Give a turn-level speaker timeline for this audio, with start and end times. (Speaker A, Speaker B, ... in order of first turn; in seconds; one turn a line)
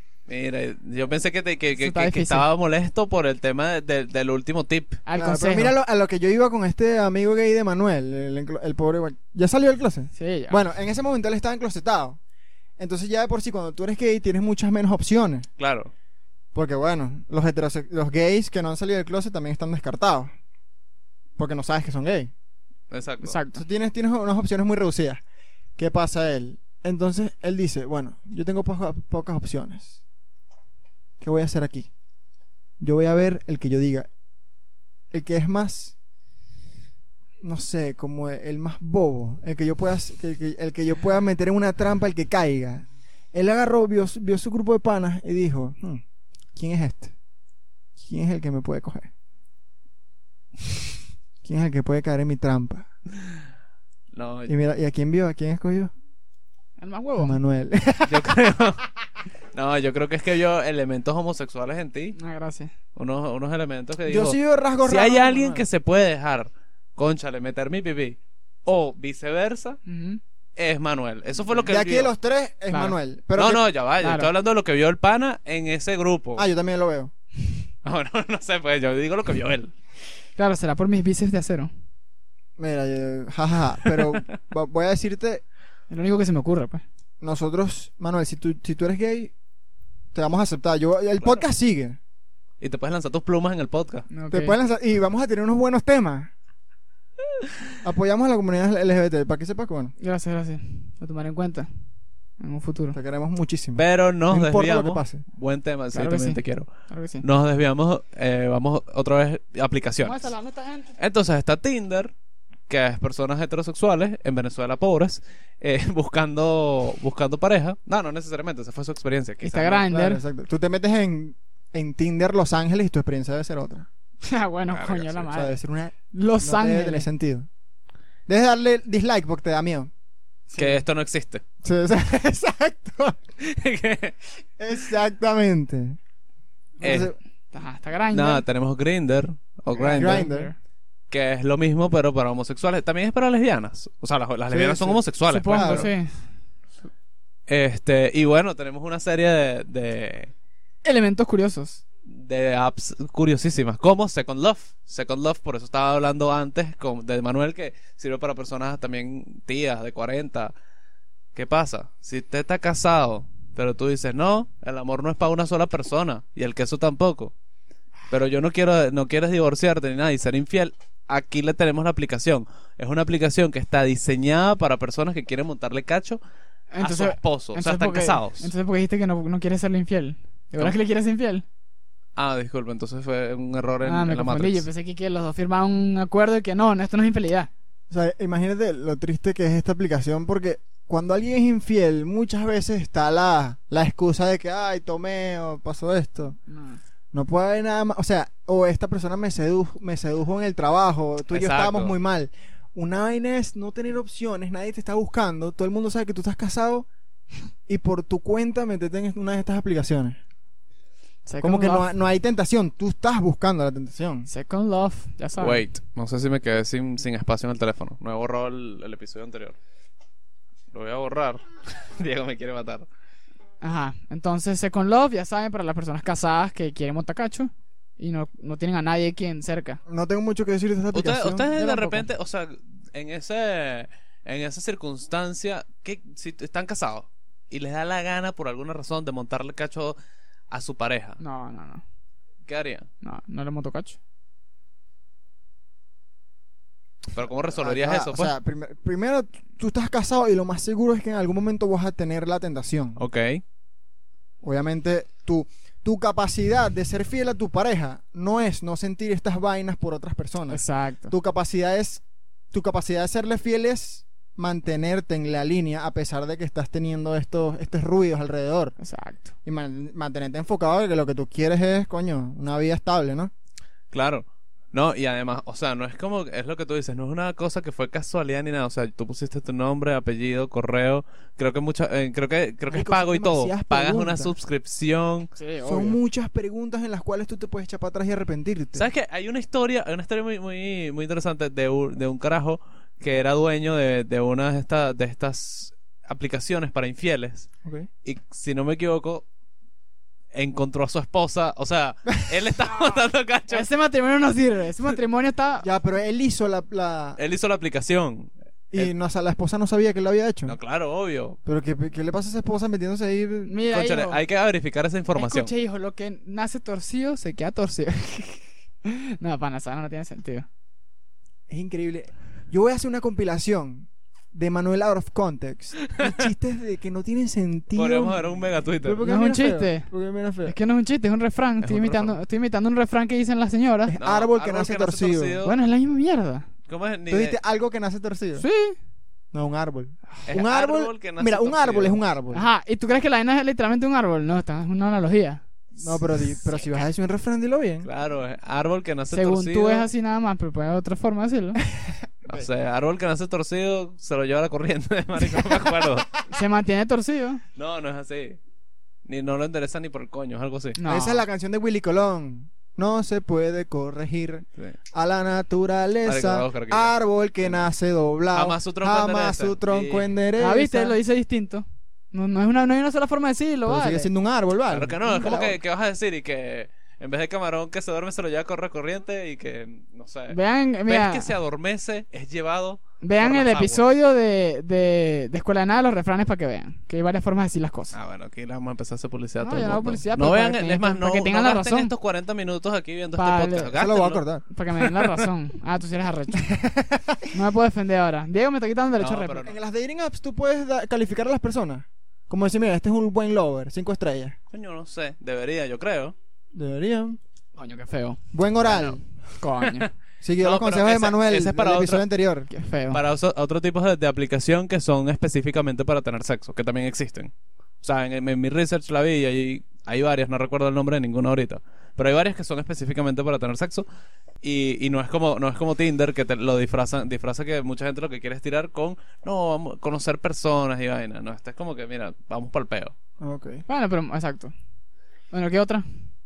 Speaker A: 0.3-5.0
Speaker B: 1.8-2.5
Speaker B: 5.0-5.7
Speaker C: 5.1-12.2
Speaker B: 10.2-10.6
Speaker C: 12.8-15.5
Speaker A: 15.6-15.9
Speaker C: 16.5-20.3
Speaker C: 21.4-22.3
Speaker A: 22.9-23.4
Speaker B: 23.2-23.6
Speaker C: 23.5-25.2
Speaker C: 25.8-30.0
Speaker C: 31.2-31.9
Speaker C: 32.8-34.1
Speaker C: 35.1-35.9
Speaker C: 37.4-46.0
Speaker C: 46.5-47.1
Speaker C: 48.0-49.1
Speaker C: 51.4-52.9
Speaker A: 54.1-54.5
Speaker C: 54.5-55.9
Speaker B: 56.8-57.4
Speaker C: 57.2-58.4
Speaker A: 58.0-58.8
Speaker A: 59.5-62.2
Speaker B: 62.2-62.7
Speaker A: 63.0-69.8
Speaker C: 64.1-65.6
Speaker B: 69.8-70.2
Speaker A: 70.6-72.1
Speaker C: 71.7-73.6
Speaker B: 72.7-73.0
Speaker A: 73.3-76.5
Speaker B: 74.0-74.3
Speaker C: 76.3-77.1
Speaker A: 77.8-79.7
Speaker B: 80.4-81.7
Speaker C: 82.6-85.4
Speaker B: 85.9-86.8
Speaker C: 87.2-89.3
Speaker C: 90.1-92.0
Speaker A: 92.6-94.1
Speaker B: 94.1-94.5
Speaker C: 94.3-96.3
Speaker C: 97.8-99.9
Speaker B: 100.0-101.7
Speaker B: 102.4-103.0
Speaker C: 102.9-105.2
Speaker A: 103.8-106.7
Speaker B: 105.9-107.2
Speaker A: 107.2-110.3
Speaker B: 110.0-111.0
Speaker A: 111.0-112.1
Speaker A: 112.7-119.8
Speaker B: 119.4-120.2
Speaker C: 119.9-123.9
Speaker B: 124.2-125.5
Speaker A: 124.7-125.3
Speaker C: 125.3-127.5
Speaker B: 126.1-127.1
Speaker C: 128.3-129.9
Speaker A: 130.6-131.4
Speaker C: 131.6-133.2
Speaker A: 133.4-134.2
Speaker C: 134.6-136.0
Speaker A: 136.8-137.1
Speaker C: 136.8-137.2
Speaker B: 136.8-138.4
Speaker A: 138.1-140.3
Speaker B: 139.8-140.5
Speaker C: 139.9-140.5
Speaker A: 141.1-145.9
Speaker C: 144.5-145.9
Speaker B: 145.3-146.1
Speaker A: 147.5-150.3
Speaker B: 150.8-151.8
Speaker A: 152.1-160.5
Speaker A: 161.3-167.3
Speaker A: 168.1-176.2
Speaker B: 176.7-181.4
Speaker A: 176.8-178.5
Speaker A: 182.2-184.7
Speaker B: 183.8-187.5
Speaker C: 187.9-196.4
Speaker B: 196.5-196.8
Speaker C: 197.1-206.9
Speaker A: 201.3-202.0
Speaker C: 207.7-210.2
Speaker B: 211.2-211.9
Speaker C: 211.4-214.3
Speaker B: 214.3-215.6
Speaker A: 215.4-219.5
Speaker A: 220.7-222.9
Speaker B: 223.6-229.8
Speaker C: 229.9-231.6
Speaker A: 230.9-240.0
Speaker B: 231.6-232.0
Speaker A: 240.5-241.2
Speaker B: 241.2-241.8
Speaker A: 242.5-242.9
Speaker B: 243.0-244.0
Speaker A: 247.1-248.3
Speaker C: 247.5-253.0
Speaker A: 253.0-253.4
Speaker C: 254.4-268.7
Speaker B: 260.5-261.1
Speaker B: 268.8-269.3
Speaker C: 269.4-273.3
Speaker A: 273.9-285.3
Speaker C: 282.7-284.3
Speaker B: 285.4-286.0
Speaker C: 285.6-288.9
Speaker A: 288.7-297.5
Speaker A: 298.0-299.2
Speaker A: 300.3-303.7
Speaker B: 303.5-305.7
Speaker C: 305.6-307.2
Speaker A: 307.2-308.9
Speaker C: 308.7-310.6
Speaker A: 310.4-311.4
Speaker C: 311.4-313.6
Speaker B: 313.5-314.2
Speaker A: 313.7-315.5
Speaker B: 315.1-320.4
Speaker C: 321.5-328.2
Speaker A: 327.7-329.0
Speaker C: 328.8-330.6
Speaker B: 329.0-329.9
Speaker B: 330.4-333.9
Speaker A: 331.6-332.2
Speaker C: 333.9-335.4
Speaker A: 334.0-335.6
Speaker B: 335.4-336.5
Speaker A: 336.7-337.4
Speaker C: 337.1-338.4
Speaker B: 338.4-338.8
Speaker C: 339.3-342.4
Speaker A: 340.3-342.0
Speaker B: 342.3-346.8
Speaker C: 345.8-347.9
Speaker A: 347.8-349.9
Speaker B: 349.1-351.6
Speaker A: 352.3-356.1
Speaker B: 356.2-357.4
Speaker A: 357.6-358.4
Speaker A: 359.1-360.8
Speaker B: 360.8-361.2
Speaker C: 360.9-371.0
Speaker A: 366.0-366.9
Speaker A: 368.3-370.1
Speaker B: 370.4-374.1
Speaker C: 373.6-375.6
Speaker A: 374.7-383.8
Speaker B: 380.3-381.3
Speaker B: 383.0-387.9
Speaker A: 387.9-394.2
Speaker B: 389.4-391.9
Speaker B: 393.2-393.7
Speaker C: 393.8-394.4
Speaker B: 394.5-396.6
Speaker C: 396.6-397.2
Speaker B: 397.2-399.4
Speaker A: 399.0-399.6
Speaker C: 399.4-404.4
Speaker A: 404.5-406.1
Speaker C: 406.5-407.2
Speaker B: 407.6-408.2
Speaker C: 408.3-409.0
Speaker A: 408.7-409.0
Speaker B: 409.4-409.9
Speaker C: 410.2-412.5
Speaker A: 410.4-412.0
Speaker B: 412.5-413.0
Speaker A: 412.9-423.9
Speaker A: 424.4-432.9
Speaker C: 433.2-433.6
Speaker B: 433.7-434.5
Speaker B: 435.3-435.9